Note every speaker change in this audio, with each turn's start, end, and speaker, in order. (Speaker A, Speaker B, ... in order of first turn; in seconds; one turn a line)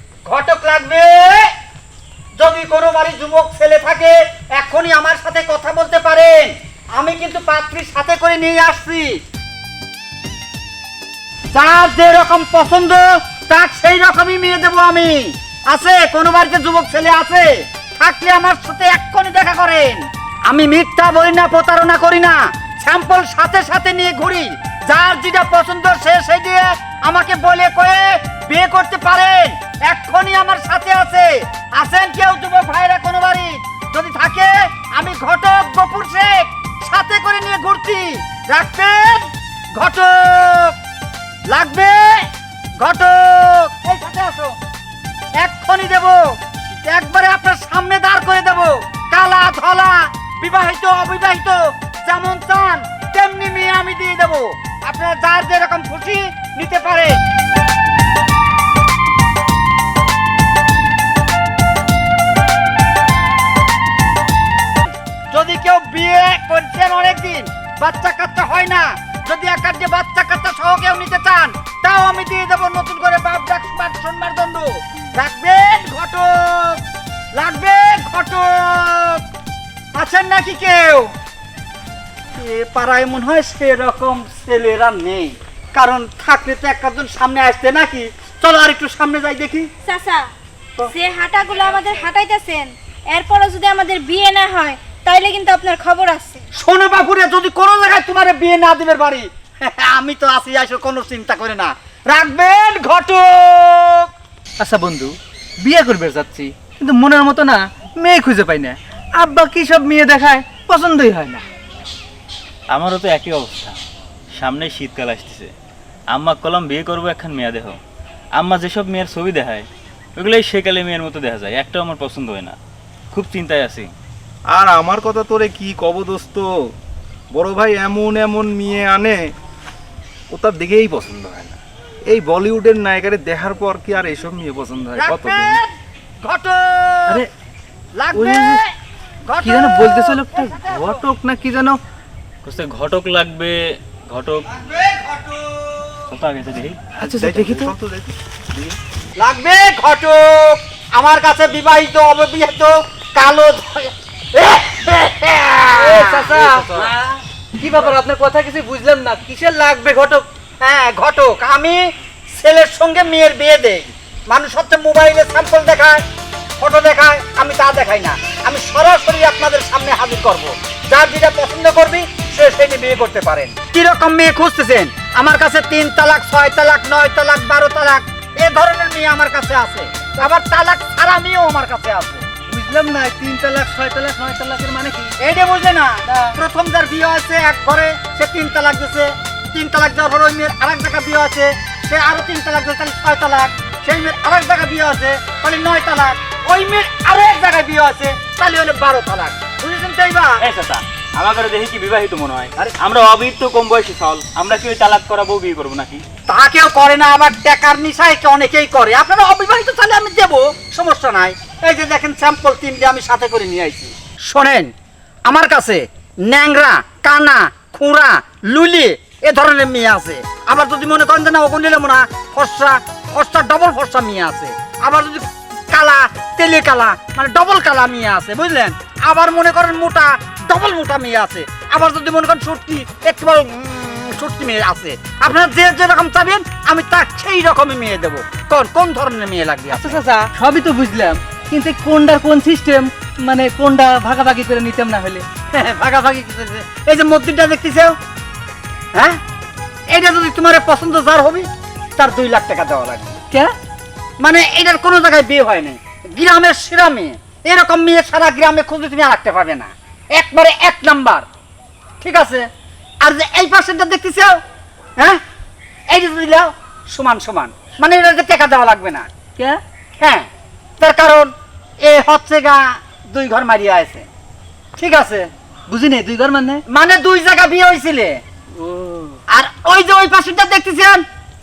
Speaker A: 0.3-1.5
Speaker A: 2.4-9.2
Speaker A: 11.5-40.8
Speaker A: 41.5-44.6
Speaker A: 45.4-57.2
Speaker A: 65.3-76.8
Speaker A: 77.3-79.2
Speaker A: 80.0-81.1
Speaker A: 82.3-89.7
Speaker B: 89.8-90.3
Speaker B: 90.9-96.4
Speaker A: 96.5-104.1
Speaker C: 104.6-111.5
Speaker D: 112.7-113.8
Speaker D: 114.4-115.5
Speaker D: 116.1-117.8
Speaker D: 118.4-122.6
Speaker D: 123.1-123.9
Speaker E: 124.5-126.5
Speaker E: 127.3-129.2
Speaker E: 130.3-135.6
Speaker A: 135.0-137.3
Speaker A: 138.0-138.7
Speaker C: 138.1-138.6
Speaker A: 139.2-141.0
Speaker C: 139.4-141.8
Speaker D: 142.4-144.5
Speaker A: 144.5-146.1
Speaker D: 146.1-146.9
Speaker C: 147.0-147.7
Speaker E: 147.1-148.7
Speaker A: 149.2-157.2
Speaker C: 155.8-156.9
Speaker C: 157.6-160.2
Speaker A: 160.6-161.8
Speaker A: 162.4-166.0
Speaker A: 166.6-182.3
Speaker C: 182.5-185.2
Speaker A: 185.2-200.4
Speaker C: 186.1-186.4
Speaker D: 200.4-206.0
Speaker A: 206.3-214.7
Speaker A: 215.3-240.0
Speaker C: 239.7-245.2
Speaker A: 245.5-248.0
Speaker A: 248.9-249.2
Speaker A: 249.9-253.2
Speaker A: 254.2-261.3
Speaker A: 262.0-262.5
Speaker A: 263.0-264.4
Speaker A: 265.9-269.1
Speaker A: 270.0-270.3
Speaker A: 270.8-274.1
Speaker A: 274.8-275.3
Speaker C: 275.7-276.6
Speaker A: 276.7-278.2
Speaker C: 278.5-279.2
Speaker A: 279.3-281.1